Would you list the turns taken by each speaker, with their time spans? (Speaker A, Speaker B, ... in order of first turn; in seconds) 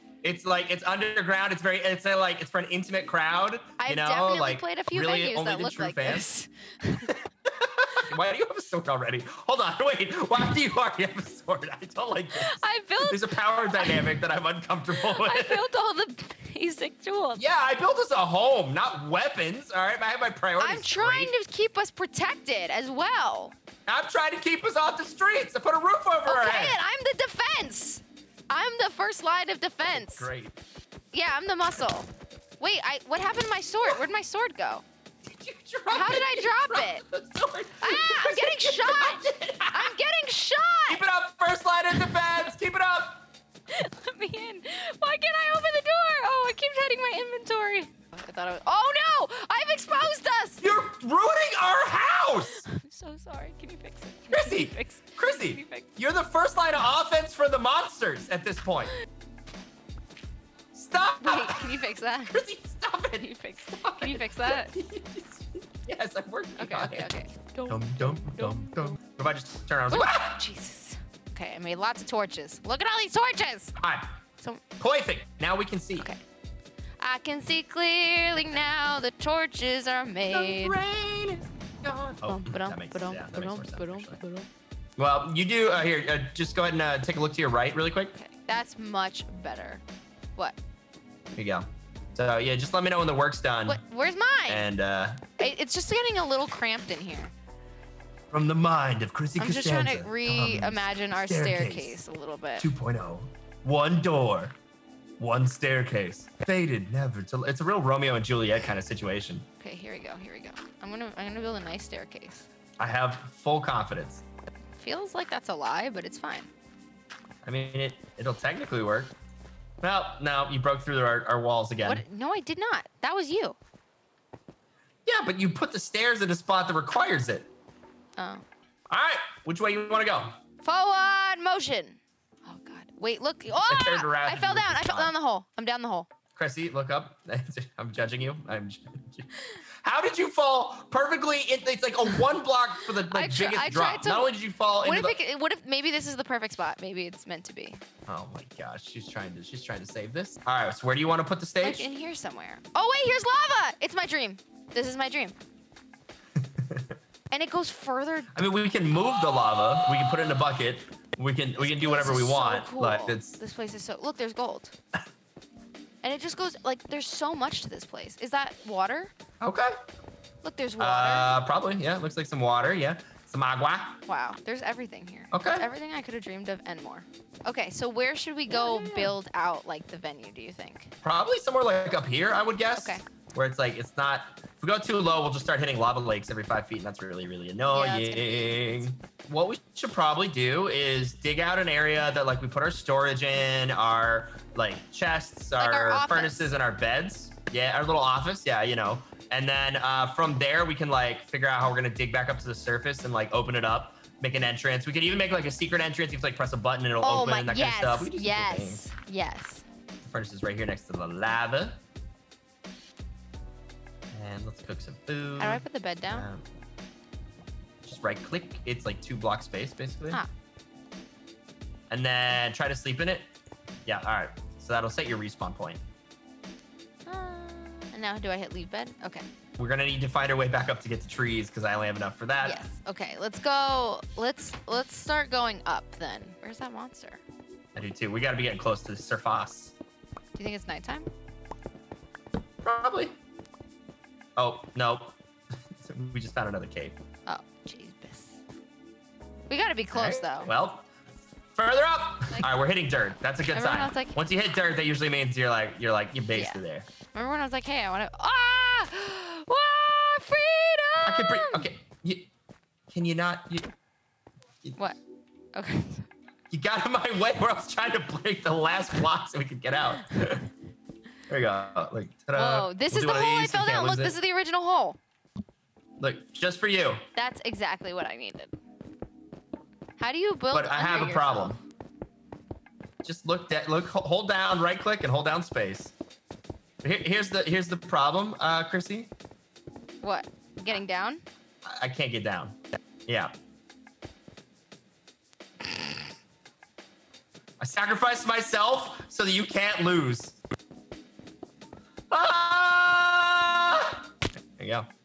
Speaker A: 0.2-6.3, 7.1-15.6, 17.4-21.3, 23.9-26.8, 29.9-30.6, 35.2-40.0, 40.9-43.3, 50.6-52.7, 54.3-59.0, 60.7-67.1, 67.7-70.4, 73.8-74.2, 74.8-76.1, 80.3-84.2, 85.0-88.1, 91.3-93.8, 94.5-95.2, 98.3-102.0, 102.6-104.5, 105.2-109.5, 112.8-114.2, 117.5-119.2, 119.8-122.0, 125.1-127.5, 128.9-130.3, 133.6-135.1, 136.4-145.2, 148.1-151.9, 156.6-157.0, 158.3-163.4, 169.4-169.8, 170.8-174.0, 175.3-175.7, 178.5-179.1, 181.0-208.8, 210.0-211.8, 214.1-216.4, 217.8-220.2, 221.9-223.3, 223.9-225.8, 229.6-232.6, 237.8-239.8, 242.6-243.2, 244.4-245.2, 245.8-247.0, 249.9-250.9, 251.6-256.9, 261.1-262.3, 262.9-263.7, 266.5-270.5, 271.3-274.2, 276.0-277.0, 280.5-281.6, 283.0-285.9, 286.8-289.1, 291.7-293.3, 297.6-300.4, 302.1-304.0, 304.6-304.9
Speaker B: 3.8-7.2, 12.4-14.1, 15.0-17.4, 20.6-23.6, 26.3-30.3, 31.1-32.1, 32.6-34.8, 35.9-37.0, 37.8-41.0, 41.9-42.3, 43.7-50.6, 52.6-55.9, 61.2-62.4, 63.2-64.8, 66.6-69.0, 69.9-73.8, 77.0-80.8, 82.2-84.5, 88.1-89.8, 93.7-94.7, 95.4-97.3, 99.4-102.7, 109.6-112.5, 114.8-116.5, 121.8-123.6, 128.2-128.4, 130.6-136.1, 143.1-147.8, 151.6-155.4, 157.3-158.3, 161.6-164.7, 166.0-169.1, 170.4-171.4, 174.1-180.9, 182.8-183.0, 187.7-188.9, 195.6-196.5, 207.0-209.7, 215.4-216.3, 227.1-229.3, 232.4-237.2, 240.3-241.1, 247.3-248.4, 249.5-250.5, 253.5-254.2, 256.3-256.6, 257.1-261.7, 265.5-266.1, 272.4-275.0, 277.2-278.5, 280.0-281.6, 290.0-291.2